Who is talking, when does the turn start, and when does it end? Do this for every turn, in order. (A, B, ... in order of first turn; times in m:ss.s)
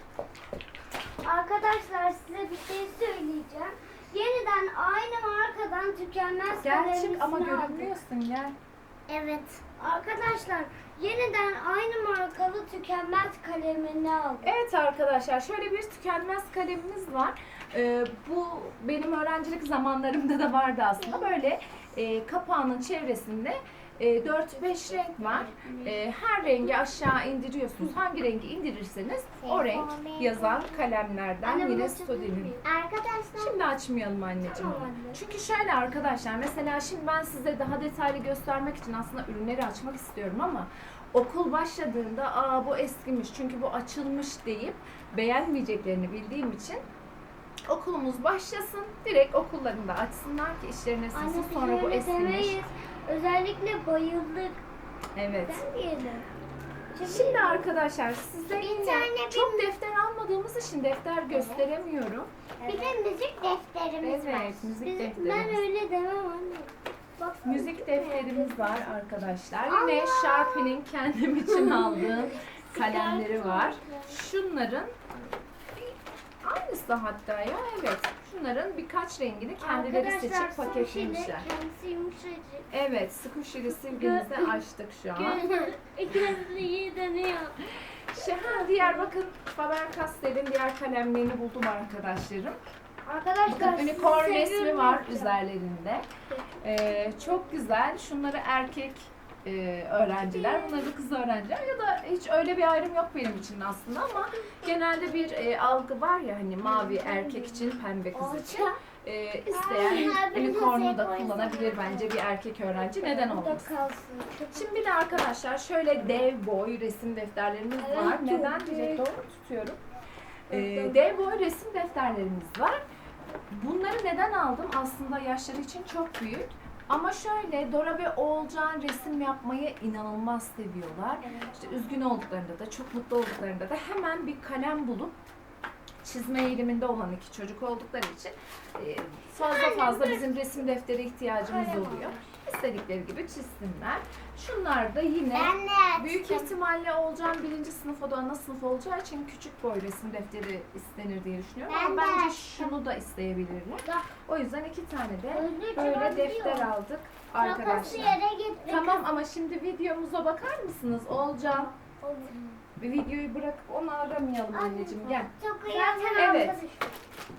0:01.2-0:08.0 A
0:06.6-0:08.6 B
0:09.1-0:09.6 C
0:09.8-0:14.6 A
0:14.4-0:32.6 B
0:21.0-0:21.3 C
0:24.5-0:26.0 A
0:29.4-0:30.8 C
0:31.4-0:32.6 A
0:32.6-0:33.6 C
0:33.4-0:46.8 B
0:34.4-0:35.2 A
0:47.7-0:52.7 B
0:51.1-0:54.6 A
0:55.2-0:55.7 B
0:55.3-0:56.3 A
0:56.9-0:57.7 A
0:57.0-1:02.3 B
0:58.5-0:59.7 C
1:01.3-1:01.6 A
1:02.6-1:03.0 A
1:02.7-1:04.7 C
1:04.0-1:05.6 B
1:04.8-1:09.0 A
1:07.4-1:21.5 B
1:09.7-1:10.7 A
1:09.7-1:10.2 C
1:11.5-1:14.2 A
1:19.6-1:22.7 A
1:22.7-1:25.6 B
1:23.7-1:24.6 A
1:25.1-1:27.6 A
1:28.1-1:32.6 B
1:28.2-1:29.1 A
1:33.0-1:35.4 A
1:33.5-1:36.1 B
1:36.6-1:53.8 B
1:40.1-1:40.9 A
1:44.4-1:44.8 A
1:46.6-1:48.8 A
1:49.5-1:52.2 A
1:49.9-1:50.4 C
1:52.8-1:55.4 A
1:54.5-1:59.8 B
1:56.0-1:56.3 A
1:57.8-1:59.1 A
2:00.5-2:02.8 B
2:00.5-2:01.5 A
2:03.5-2:15.2 B
2:11.2-2:11.9 A
2:16.0-2:41.7 B
2:19.4-2:20.3 A
2:21.4-2:22.3 A
2:25.3-2:26.5 C
2:31.7-2:32.5 C
2:35.3-2:36.7 A
2:37.3-2:39.0 A
2:37.4-2:39.0 C
2:41.4-2:42.6 A
2:42.8-2:45.3 B
2:44.5-2:46.6 C
2:44.6-2:47.0 A
2:46.2-2:46.6 B